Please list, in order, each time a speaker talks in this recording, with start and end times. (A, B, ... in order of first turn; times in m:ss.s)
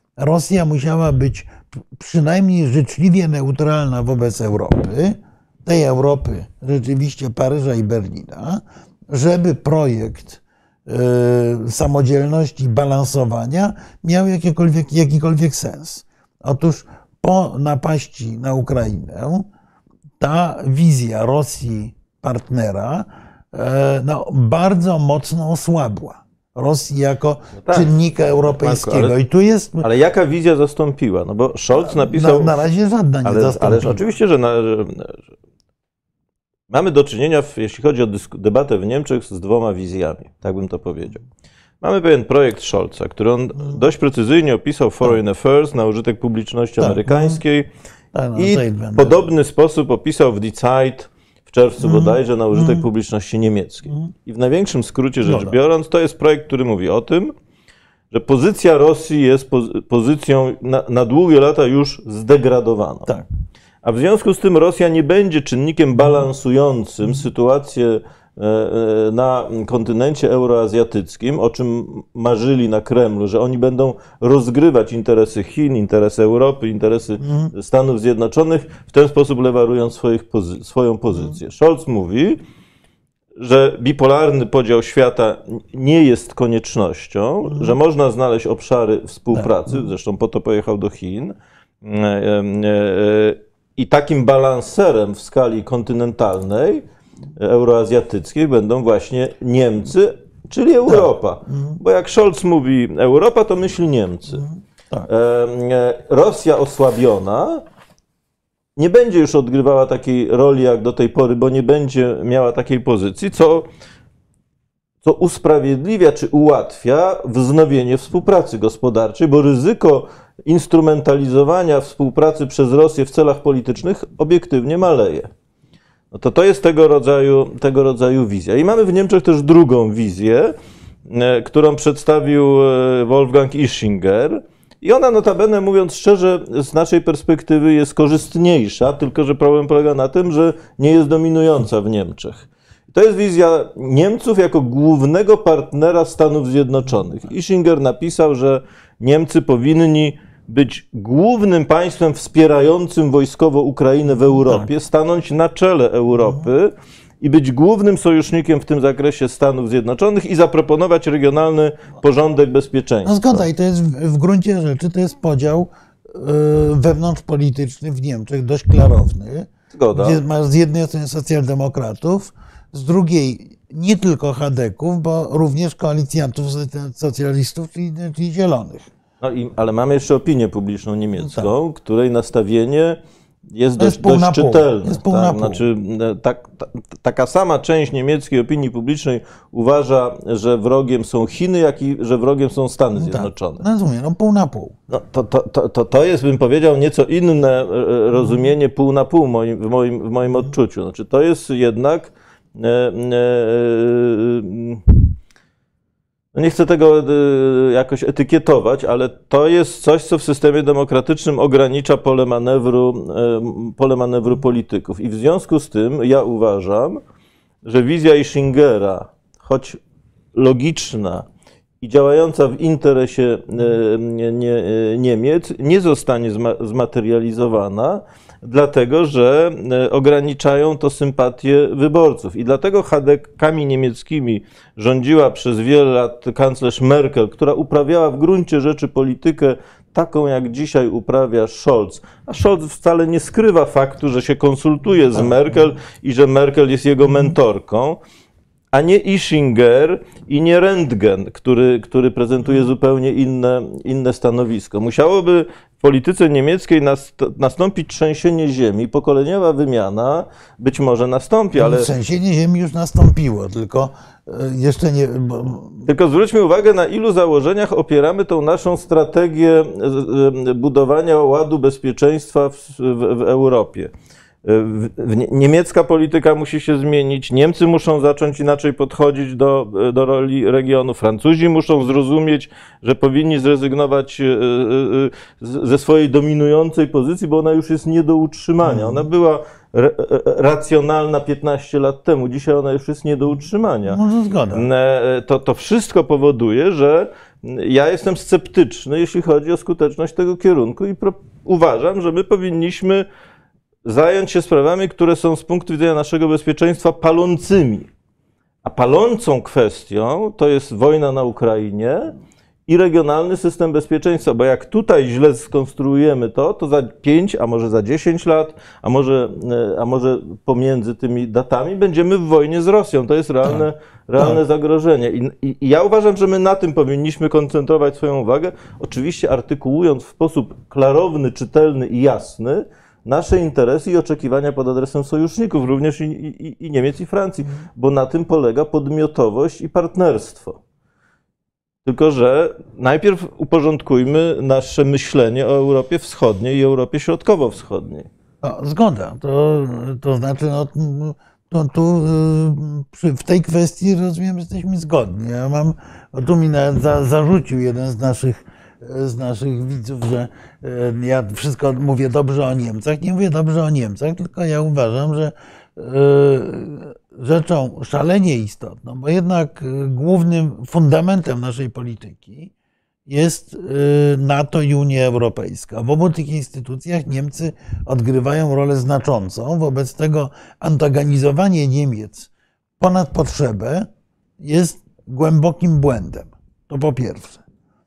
0:00.2-0:19.5 A
0:20.2-0:29.8 A
0:27.6-0:27.9 B
0:28.5-0:29.1 B
0:29.8-0:32.5 B
0:31.8-0:34.0 A
0:33.2-0:35.2 B
0:36.7-0:41.2 B
0:41.8-0:47.7 B
0:46.8-0:47.4 A
0:48.1-0:49.2 A
0:48.4-0:57.3 B
0:51.8-0:52.8 A
0:55.2-0:55.6 A
0:58.1-1:03.1 B
1:03.8-1:22.4 B
1:23.4-1:36.8 B
1:29.3-1:29.9 A
1:37.4-1:44.4 B
1:40.9-1:41.8 A
1:44.3-1:45.1 A
1:45.1-1:47.6 B
1:48.8-1:53.6 B
1:55.0-2:05.3 B
2:06.1-2:10.5 B
2:11.0-2:43.4 B
2:34.3-2:34.7 A
2:43.0-2:58.9 A
2:49.7-2:50.2 B
2:59.2-3:03.0 B
3:01.2-3:01.5 A
3:03.5-3:13.6 B
3:03.8-3:05.6 A
3:13.0-3:14.8 A
3:14.9-3:25.2 B
3:26.3-3:37.0 B
3:37.6-3:39.8 B
3:40.3-3:41.2 B
3:41.8-4:08.0 B
4:08.7-4:21.9 B
4:21.6-4:25.9 A
4:25.8-4:33.9 B
4:34.4-4:54.0 B
4:48.6-4:49.1 A
4:53.9-4:54.7 A
4:54.5-5:03.0 B
5:03.8-5:07.9 B
5:08.6-5:12.1 B
5:12.7-5:40.6 B
5:41.8-5:48.1 B
5:48.4-6:12.5 A
6:13.1-6:23.9 A
6:24.4-6:27.4 A